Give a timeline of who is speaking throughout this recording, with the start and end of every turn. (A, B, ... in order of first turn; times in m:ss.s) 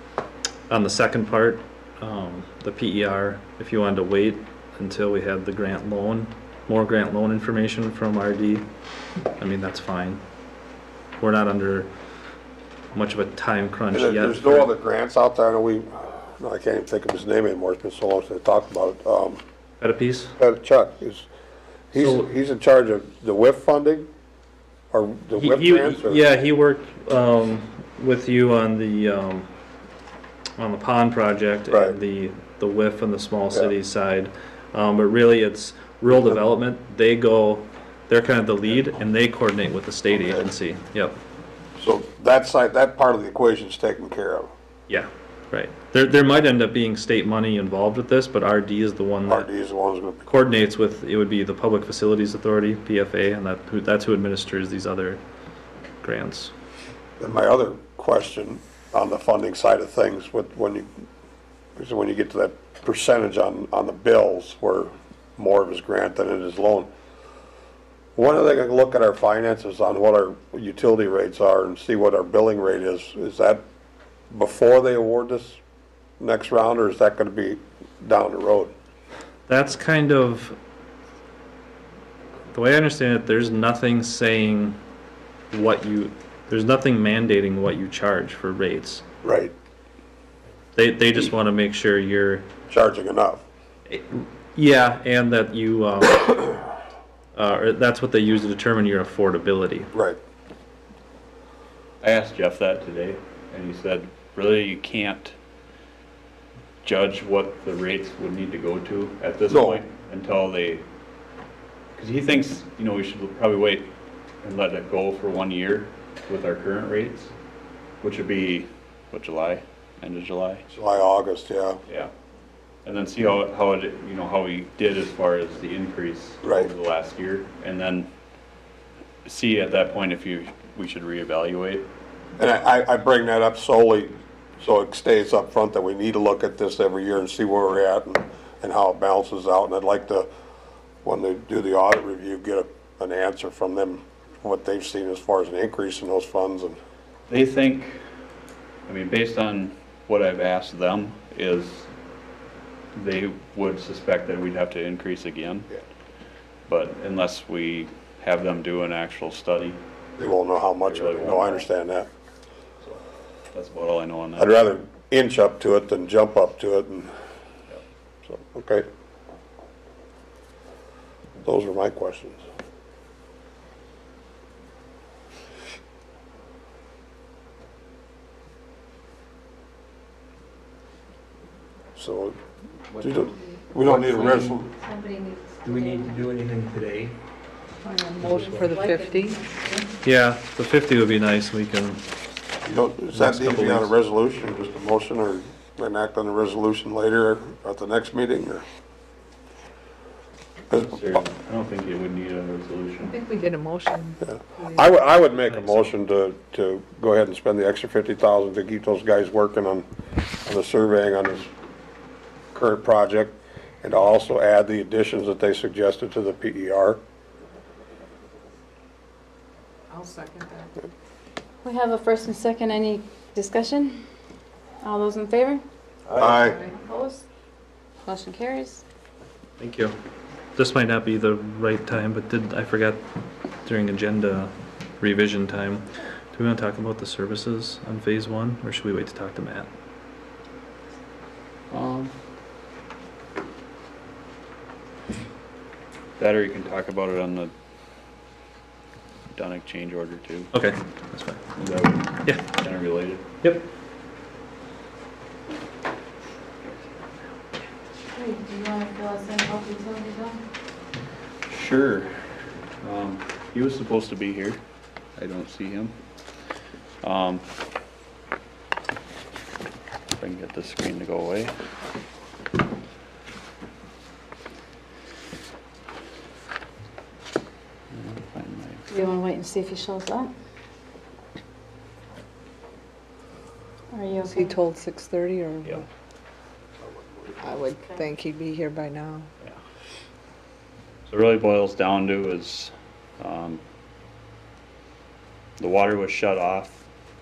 0:00.7-0:08.7 A
0:09.4-0:10.2 A
0:11.2-0:11.9 A
0:12.9-0:14.7 A
0:13.9-0:19.4 B
0:19.8-0:20.3 A
0:20.4-0:21.3 B
0:21.9-0:24.1 B
0:22.0-0:22.3 A
0:24.9-0:26.2 B
0:25.4-0:29.5 A
0:30.6-0:41.2 A
0:31.7-0:32.0 B
0:40.1-0:40.4 B
0:41.8-0:44.5 B
0:44.9-0:49.5 A
0:49.2-0:50.2 B
0:50.2-0:55.2 A
0:56.0-0:56.5 A
0:57.2-1:01.0 B
1:01.8-1:06.9 B
1:08.2-1:13.6 B
1:14.3-1:15.6 B
1:16.2-1:18.7 B
1:19.5-1:20.6 A
1:22.5-1:24.8 A
1:25.5-1:29.0 A
1:29.2-1:29.5 B
1:30.8-1:32.4 A
1:32.7-1:33.4 B
1:33.9-1:36.7 A
1:37.3-1:39.9 A
1:42.0-1:45.3 C
1:46.8-1:50.8 C
1:49.5-1:49.8 B
1:52.0-1:53.9 C
1:54.4-1:57.3 C
1:58.0-2:00.6 C
2:00.7-2:01.8 B
2:02.8-2:08.1 C
2:06.4-2:06.7 B
2:09.2-2:11.9 C
2:12.4-2:20.3 B
2:21.0-2:26.8 B
2:27.3-2:28.0 C
2:28.8-2:31.9 C
2:32.9-2:35.7 C
2:36.7-2:39.8 C
2:40.2-2:42.1 B
2:40.8-2:41.7 C
2:43.5-2:44.5 C
2:44.4-2:47.1 B
2:48.2-2:48.8 B
2:51.4-2:52.4 B
3:02.0-3:02.4 B
3:02.9-3:04.6 D
3:03.0-3:04.7 B
3:04.8-3:06.1 E
3:05.6-3:07.2 D
3:07.9-3:09.4 F
3:08.2-3:08.8 D
3:08.6-3:09.8 E
3:10.0-3:12.0 A
3:12.6-3:18.6 B
3:13.1-3:13.9 A
3:20.7-3:23.2 C
3:20.7-3:21.0 B
3:23.1-3:24.9 F
3:24.2-3:29.8 B
3:30.4-3:31.5 B
3:32.5-3:37.0 B
3:39.9-3:40.8 F
3:41.6-3:44.0 E
3:44.8-3:45.6 E
3:46.1-3:46.7 F
3:46.2-3:46.6 B
3:46.3-3:47.2 E
3:48.0-3:48.8 E
3:49.6-3:49.9 A
3:50.6-3:53.0 A
3:53.6-3:59.7 A
4:01.7-4:02.2 C
4:06.2-4:07.5 C
4:09.3-4:10.5 C
4:10.5-4:11.4 A
4:11.6-4:13.2 C
4:18.1-4:20.4 E
4:21.5-4:24.6 C
4:25.2-4:26.0 C
4:27.0-4:27.5 C
4:30.2-4:31.6 C
4:37.9-4:38.9 C
4:38.9-4:40.3 E
4:43.9-4:44.5 E
4:44.2-4:45.8 F
4:47.4-4:49.3 F
4:47.7-4:48.0 E
4:51.1-4:53.6 C
4:55.6-4:56.8 C